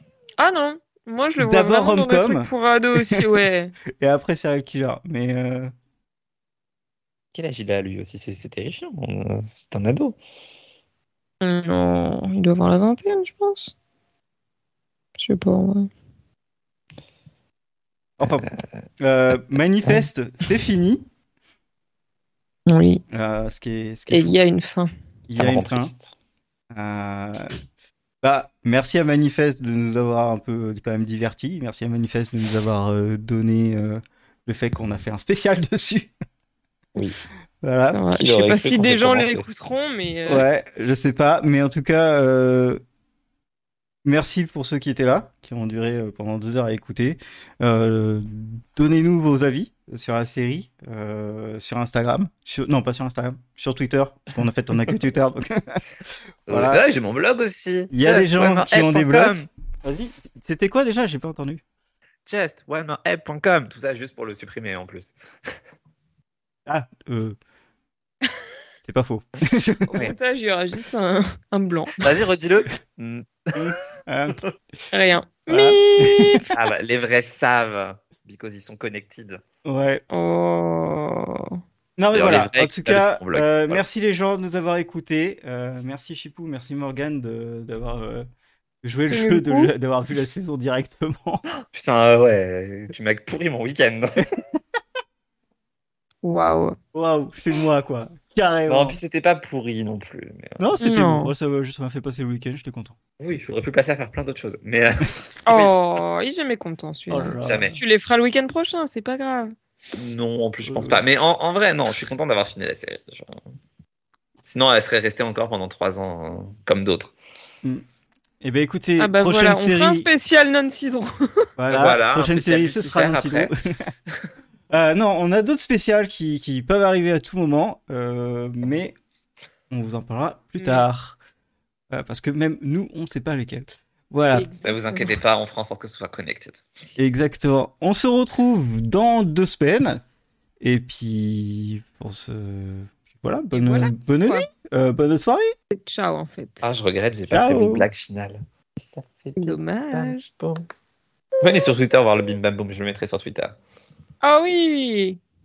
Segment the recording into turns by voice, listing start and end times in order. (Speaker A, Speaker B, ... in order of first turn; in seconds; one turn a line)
Speaker A: 0.4-3.7
Speaker B: 1.4-2.5
Speaker B: 4.0-5.7
Speaker C: 7.3-10.2
Speaker A: 11.4-13.7
Speaker A: 15.2-15.9
Speaker B: 18.2-21.0
Speaker C: 18.2-18.6
Speaker A: 22.7-23.0
Speaker B: 23.1-24.3
Speaker A: 24.1-24.9
Speaker B: 25.3-25.9
Speaker C: 25.4-26.1
Speaker B: 26.7-27.5
Speaker B: 28.2-36.1
Speaker B: 37.6-38.0
Speaker A: 37.9-40.4
Speaker C: 38.1-39.5
Speaker B: 40.3-42.8
Speaker B: 44.0-55.8
Speaker B: 56.5-56.8
Speaker C: 56.5-59.5
Speaker B: 57.9-61.6
Speaker C: 62.2-65.5
Speaker B: 66.7-67.3
Speaker B: 68.8-70.1
Speaker A: 69.9-72.1
Speaker C: 72.0-73.5
Speaker B: 73.5-74.4
Speaker A: 74.9-76.5
Speaker B: 75.5-76.5
Speaker C: 76.0-79.4
Speaker B: 79.6-80.0
Speaker A: 80.1-81.6
Speaker B: 82.0-88.2
Speaker C: 82.1-83.8
Speaker B: 88.8-91.4
Speaker A: 89.1-89.7
Speaker C: 91.7-94.2
Speaker A: 96.2-96.8
Speaker B: 96.9-99.0
Speaker C: 98.7-100.6
Speaker B: 100.6-103.0
Speaker A: 100.8-101.3
Speaker C: 103.2-105.7
Speaker A: 105.5-109.5
Speaker B: 107.1-107.8
Speaker C: 107.4-107.8
Speaker C: 109.9-113.4
Speaker B: 110.6-111.0
Speaker C: 114.4-117.1
Speaker B: 118.4-120.1
Speaker A: 119.0-121.3
Speaker B: 121.6-123.9
Speaker C: 121.7-123.5
Speaker B: 124.7-128.9
Speaker B: 129.7-131.2
Speaker A: 130.6-130.8
Speaker B: 131.9-134.5
Speaker A: 134.3-135.2
Speaker C: 134.6-136.6
Speaker B: 137.0-140.0
Speaker B: 140.6-145.5
Speaker A: 143.5-144.4
Speaker A: 145.7-146.6
Speaker C: 146.6-150.6
Speaker B: 147.3-147.9
Speaker A: 149.4-150.3
Speaker C: 151.4-153.6
Speaker A: 154.2-155.2